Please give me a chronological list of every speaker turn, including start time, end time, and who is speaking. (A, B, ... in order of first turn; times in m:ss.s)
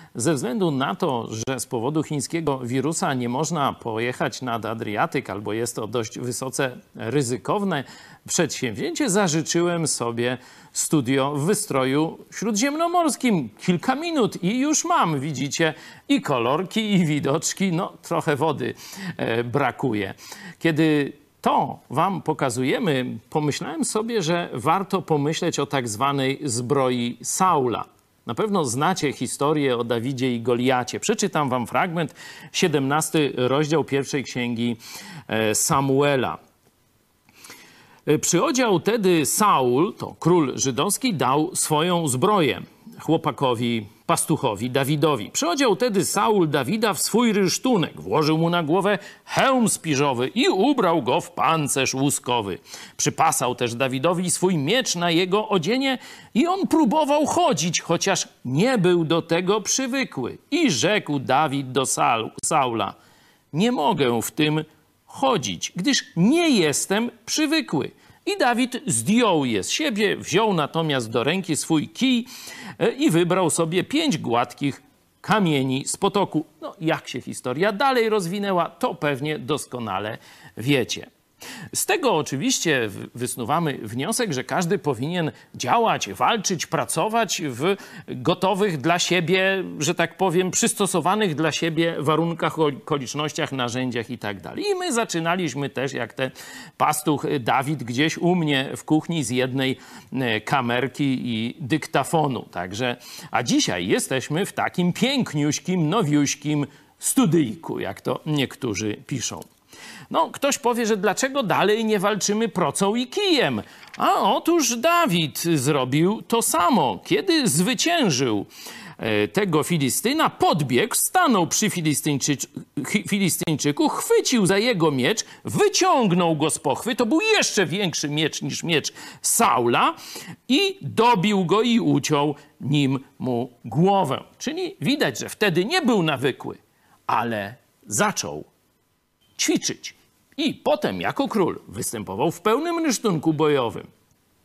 0:00.1-0:34.8 A
0:35.3-0:36.4 A
0:38.0-1:03.0 A
1:03.5-1:21.1 A
1:21.7-1:49.4 A
1:50.1-1:58.5 A
1:59.0-2:09.9 A
2:10.5-2:18.5 A
2:19.4-2:23.9 A